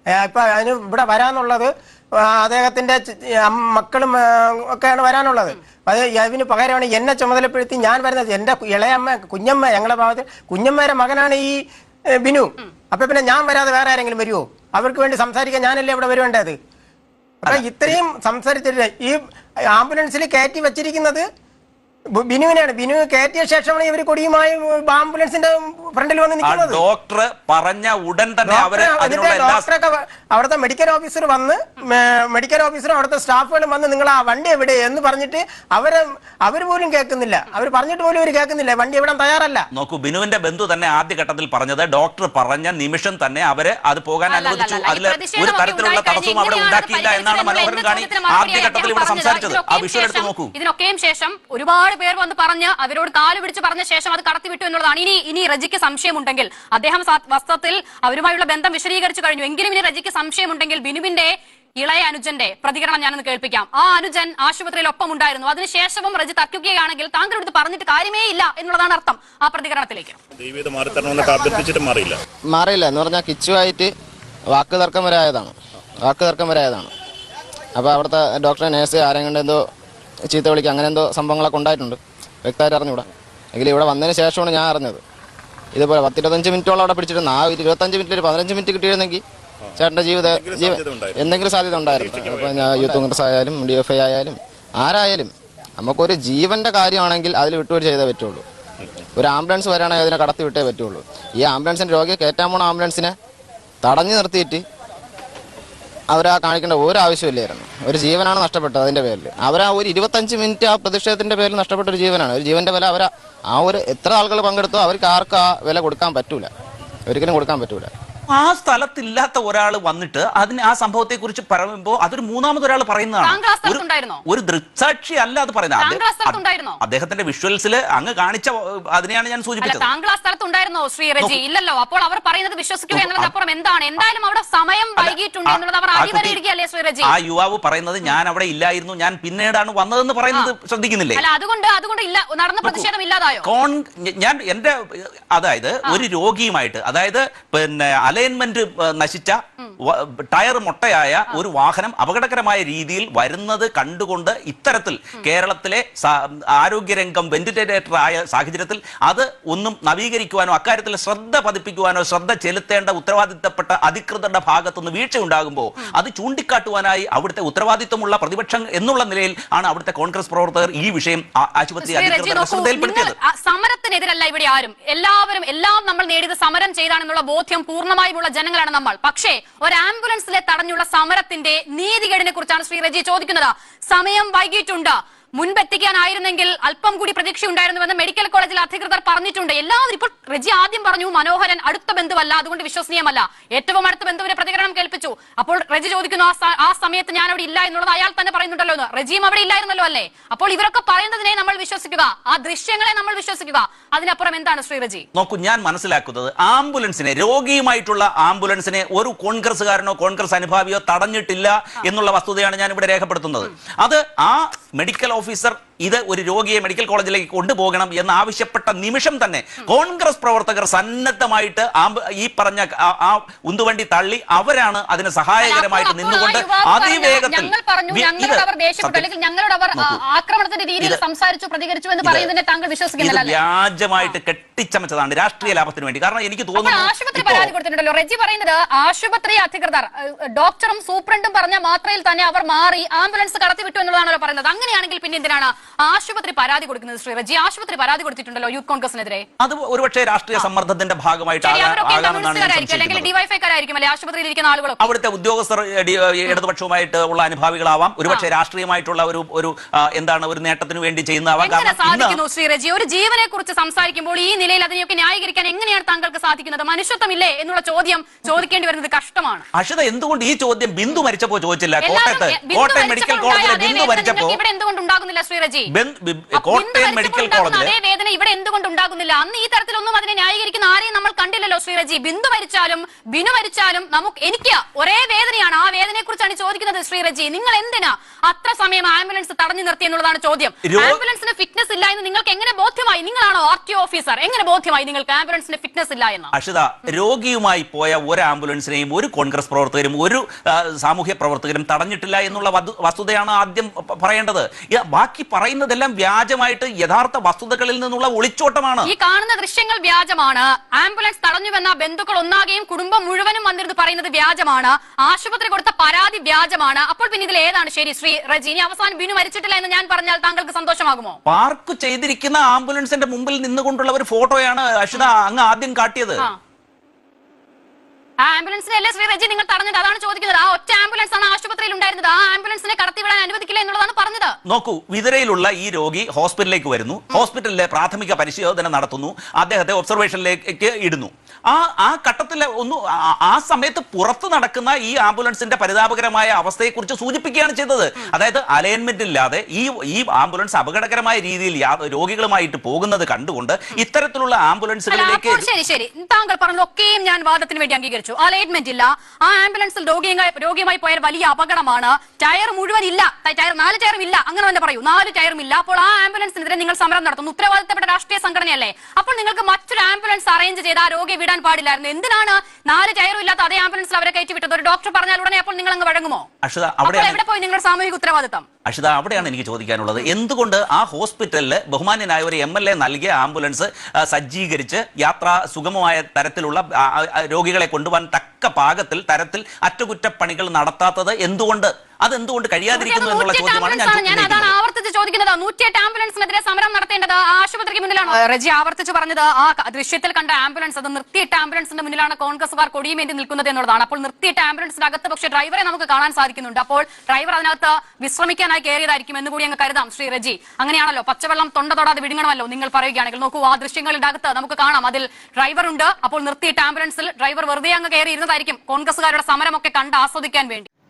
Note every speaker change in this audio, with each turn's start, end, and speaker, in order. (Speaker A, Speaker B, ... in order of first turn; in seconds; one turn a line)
Speaker A: 0.1-11.6
Speaker A: 12.2-16.6
Speaker A: 17.4-19.2
Speaker A: 19.7-21.2
Speaker A: 22.1-26.8
Speaker B: 26.4-29.6
Speaker A: 28.4-39.7
Speaker B: 39.7-50.5
Speaker C: 44.3-70.2
Speaker D: 70.4-72.2
Speaker E: 72.5-73.9
Speaker E: 74.5-76.9
Speaker E: 77.8-79.7
Speaker E: 80.2-85.0
Speaker E: 85.7-89.2
Speaker E: 89.8-98.4
Speaker D: 90.2-92.8
Speaker E: 99.1-103.2
Speaker E: 103.8-104.6
Speaker E: 106.1-116.5
Speaker E: 117.0-117.9
Speaker B: 118.3-129.9
Speaker C: 123.2-124.2
Speaker C: 125.8-126.8
Speaker C: 129.6-137.1
Speaker B: 132.9-133.3
Speaker B: 135.0-136.4
Speaker B: 137.1-141.2
Speaker C: 141.2-143.5
Speaker B: 143.4-173.1
Speaker C: 171.8-205.1
Speaker B: 205.1-229.1
Speaker C: 225.4-233.4
Speaker B: 229.7-230.0
Speaker B: 232.0-232.3
Speaker B: 233.0-237.5
Speaker C: 236.6-249.2
Speaker B: 249.4-253.1
Speaker C: 251.4-254.9
Speaker B: 254.8-262.2
Speaker C: 261.4-269.4
Speaker B: 269.5-274.4
Speaker C: 271.8-275.7
Speaker B: 275.7-277.7
Speaker C: 276.4-296.3
Speaker B: 290.6-291.0
Speaker B: 296.3-308.9
Speaker C: 308.8-321.2
Speaker B: 321.2-326.3
Speaker C: 328.2-334.4
Speaker B: 334.4-355.5
Speaker C: 354.9-376.3
Speaker B: 376.4-377.2
Speaker C: 376.8-378.4
Speaker B: 378.6-394.5
Speaker C: 392.7-420.7